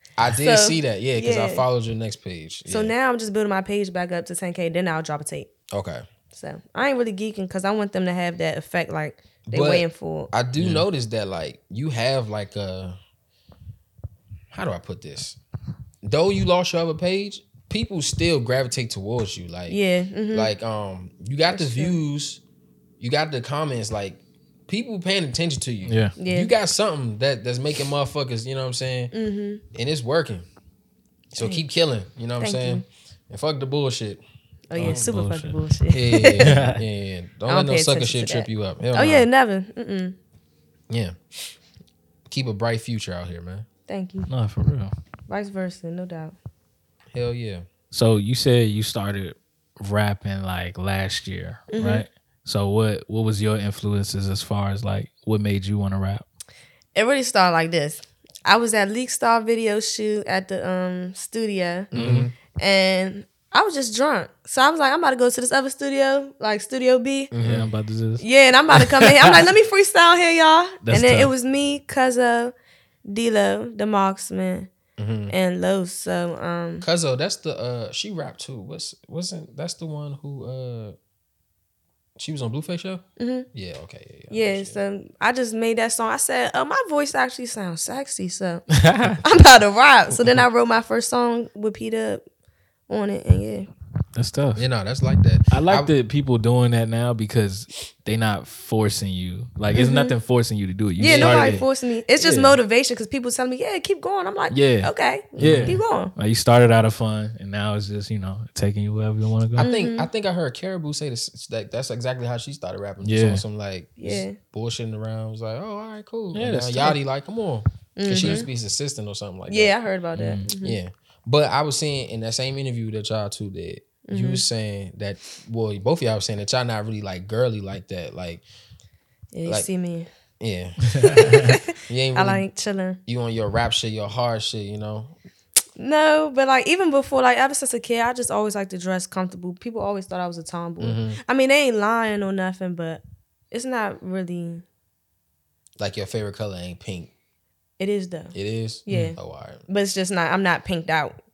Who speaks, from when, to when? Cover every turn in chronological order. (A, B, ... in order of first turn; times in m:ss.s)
0:00.2-0:02.9 A
0:00.4-0:01.7 B
0:02.7-0:05.5 B
0:05.7-0:06.1 A
0:06.3-0:10.3 B
0:09.5-0:13.0 A
0:10.6-0:10.8 C
0:14.5-0:15.4 A
0:16.0-0:19.8 A
0:19.7-0:20.5 B
0:20.3-0:22.4 A
0:21.5-0:22.0 B
0:23.0-0:29.1 A
0:25.9-0:26.2 C
0:26.2-0:26.5 B
0:29.1-0:29.6 B
0:29.7-0:30.5 A
0:31.3-0:34.2 A
0:31.4-0:31.6 B
0:32.4-0:32.8 B
0:34.7-0:36.6 B
0:34.8-0:35.6 C
0:35.9-0:39.3 A
0:36.4-0:36.8 C
0:37.5-0:40.2 B
0:40.9-0:41.2 A
0:42.3-0:43.7 A
0:43.9-0:44.3 B
0:44.3-0:44.9 C
0:45.3-0:46.4 B
0:47.1-0:47.7 A
0:47.9-0:56.2 C
0:51.7-0:52.1 B
0:57.0-1:01.9 B
1:01.9-1:02.3 A
1:01.9-1:02.3 C
1:02.5-1:07.3 B
1:07.3-1:07.7 A
1:07.4-1:09.5 C
1:08.2-1:12.5 B
1:10.8-1:11.3 C
1:13.1-1:14.7 B
1:15.0-1:15.3 A
1:15.3-1:16.9 B
1:16.8-1:21.0 A
1:22.2-1:24.8 A
1:23.2-1:23.5 B
1:24.3-1:28.6 B
1:28.7-1:29.2 C
1:29.2-1:32.2 B
1:32.9-1:33.7 B
1:34.2-1:34.6 C
1:34.6-1:35.9 A
1:35.5-1:41.6 C
1:39.7-1:40.1 B
1:41.0-1:46.1 B
1:41.0-1:41.6 A
1:42.2-1:42.6 C
1:44.5-1:49.7 C
1:45.4-1:45.8 A
1:49.6-1:59.7 A
1:49.6-1:50.1 B
1:53.0-1:53.4 C
1:54.0-1:54.4 B
1:56.3-1:57.0 C
1:58.0-1:58.5 B
1:58.2-1:58.5 C
1:59.5-2:00.8 B
2:00.2-2:00.5 C
2:00.6-2:08.4 A
2:04.0-2:04.4 B
2:09.3-2:10.1 B
2:10.4-2:12.4 A
2:10.9-2:11.6 C
2:11.1-2:11.6 B
2:12.2-2:13.0 B
2:13.1-2:15.1 A
2:15.8-2:24.6 B
2:20.8-2:21.2 A
2:25.8-2:27.1 A
2:27.8-2:28.4 B
2:28.3-2:29.6 A
2:28.9-2:31.2 B
2:28.9-2:29.2 C